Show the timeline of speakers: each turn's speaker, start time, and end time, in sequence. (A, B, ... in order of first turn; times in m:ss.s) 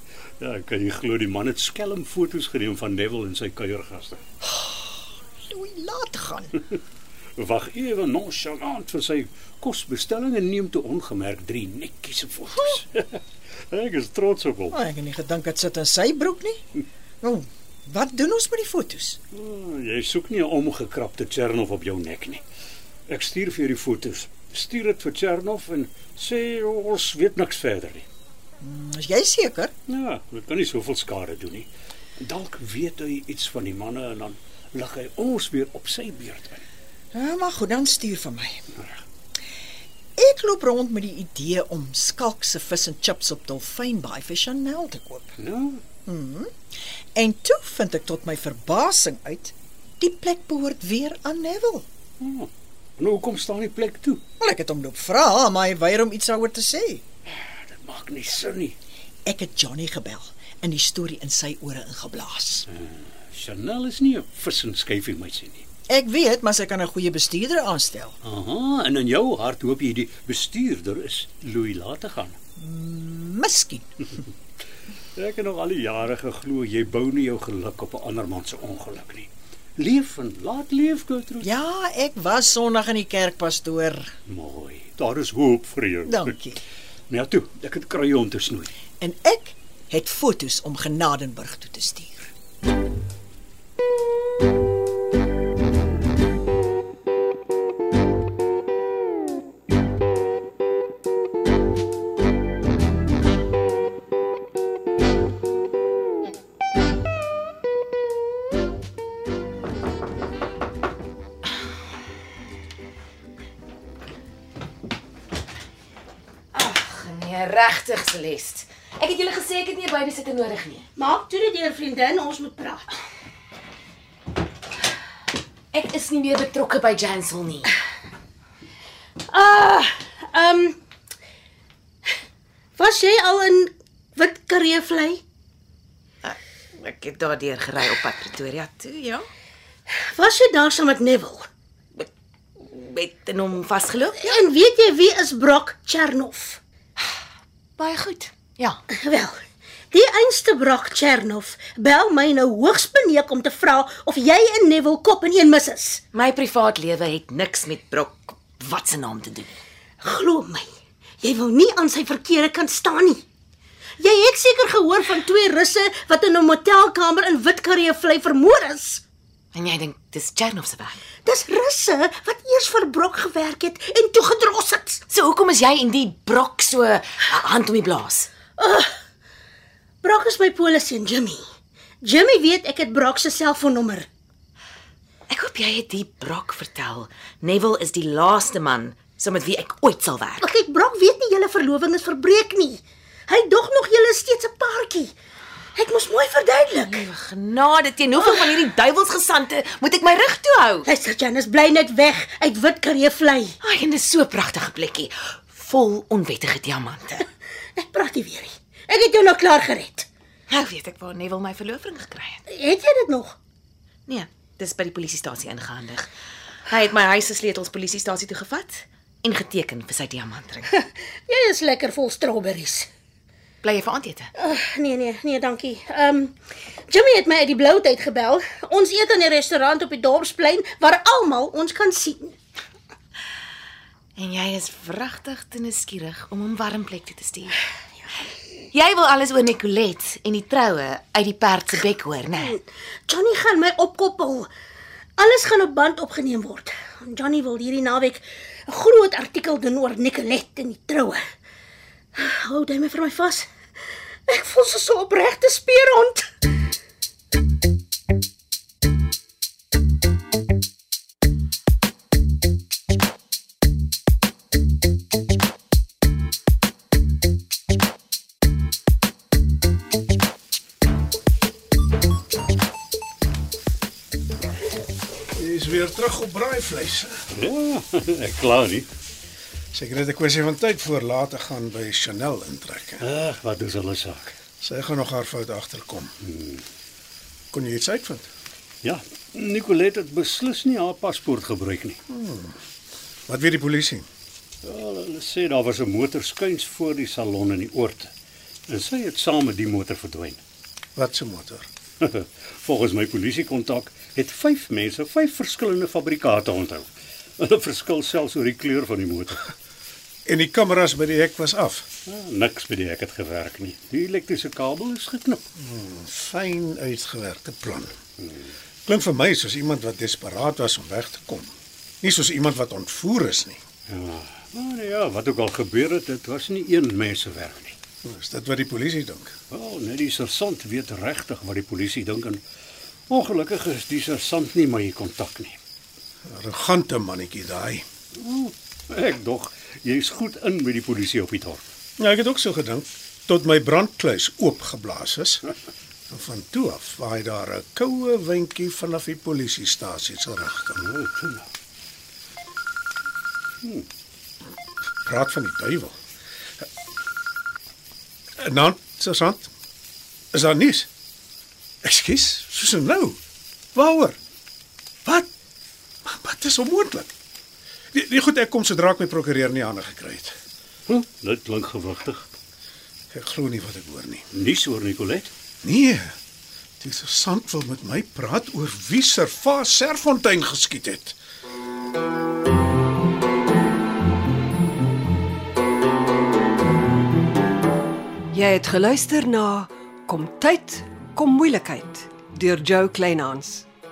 0:00.4-0:04.2 A
0:04.4-0:06.6 B
0:07.4-0:14.8 A
0:14.7-0:16.6 B
0:17.2-0:19.2 B
0:19.3-0:22.4 A
0:23.1-0:28.0 A
0:28.6-0:29.7 B
0:29.9-0:36.6 A
0:37.1-0:38.6 B
0:40.2-0:45.3 B
0:45.4-0:45.8 A
0:46.0-0:46.5 B
0:47.1-0:51.9 B
0:52.2-0:54.2 A
0:54.4-0:57.0 B
0:57.4-0:58.7 A
0:59.2-1:02.7 B
1:02.7-1:05.6 A
1:05.9-1:08.2 B
1:08.2-1:12.4 A
1:12.6-1:13.9 B
1:15.2-1:21.5 A
1:21.4-1:24.1 B
1:24.3-1:26.4 A
1:26.0-1:26.6 B
1:27.1-1:28.7 A
1:29.0-1:32.3 B
1:56.5-2:00.8 C
2:00.9-2:02.9 D
2:05.7-2:07.7 C
2:09.3-2:10.8 D
2:12.8-2:15.2 D
2:16.2-2:19.2 C
2:19.9-2:21.5 D
2:22.6-2:24.3 C
2:24.2-2:26.6 D
2:27.8-2:28.8 C
2:28.9-2:36.0 D
2:36.1-2:39.6 C
2:40.0-2:40.7 D
2:41.2-2:43.2 D
2:44.0-2:49.0 D
2:49.5-2:51.0 C
2:51.2-2:55.0 D
2:55.1-2:58.3 C
2:58.6-2:58.9 D
3:00.0-3:01.4 D
3:02.0-3:04.1 D
3:05.3-3:10.4 C
3:10.4-3:15.1 D
3:15.7-3:17.0 D
3:16.8-3:20.8 C
3:18.2-3:18.5 D
3:20.8-3:23.6 D
3:23.6-3:27.2 C
3:27.8-3:30.1 D
3:30.5-3:32.4 C
3:32.5-3:33.4 D
3:34.1-3:36.1 C
3:36.7-3:40.7 C
3:40.8-3:42.9 D
3:43.6-3:44.3 C
3:44.4-3:46.4 D
3:46.9-3:52.4 D
3:54.2-3:57.6 C
3:58.7-4:02.6 C
4:02.4-4:04.5 D
4:05.2-4:11.2 D
4:12.1-4:13.5 D
4:14.3-4:16.3 D
4:35.4-4:37.2 E
4:37.3-4:38.9 A
4:39.7-4:43.0 E
4:43.0-4:44.3 A
4:44.6-4:46.1 E
4:46.3-4:46.6 A
4:47.5-4:48.3 E
4:48.8-4:52.0 A
4:52.1-4:52.6 E
4:53.3-4:54.0 E
4:54.6-4:58.1 A
4:58.7-5:00.4 A
5:01.0-5:01.7 E
5:02.0-5:09.5 A
5:10.2-5:11.9 E
5:12.1-5:15.4 A
5:15.6-5:17.9 E
5:18.8-5:21.5 E
5:22.0-5:23.6 E
5:23.9-5:27.8 A
5:28.0-5:29.3 E
5:29.5-5:32.4 A
5:33.1-5:35.6 A
5:36.2-5:37.8 E
5:38.2-5:41.6 A
5:42.0-5:45.4 E
5:46.1-5:50.8 E
5:50.8-5:51.4 A
5:55.0-5:56.0 E
5:58.4-5:59.5 E
6:00.3-6:00.9 E
6:01.8-6:03.2 E
6:03.7-6:04.2 E
6:06.0-6:07.1 E
6:07.9-6:10.4 E
6:10.9-6:12.2 A
6:13.1-6:14.3 E
6:14.3-6:15.3 A
6:15.6-6:16.1 E
6:16.8-6:21.2 E
6:28.3-6:33.6 F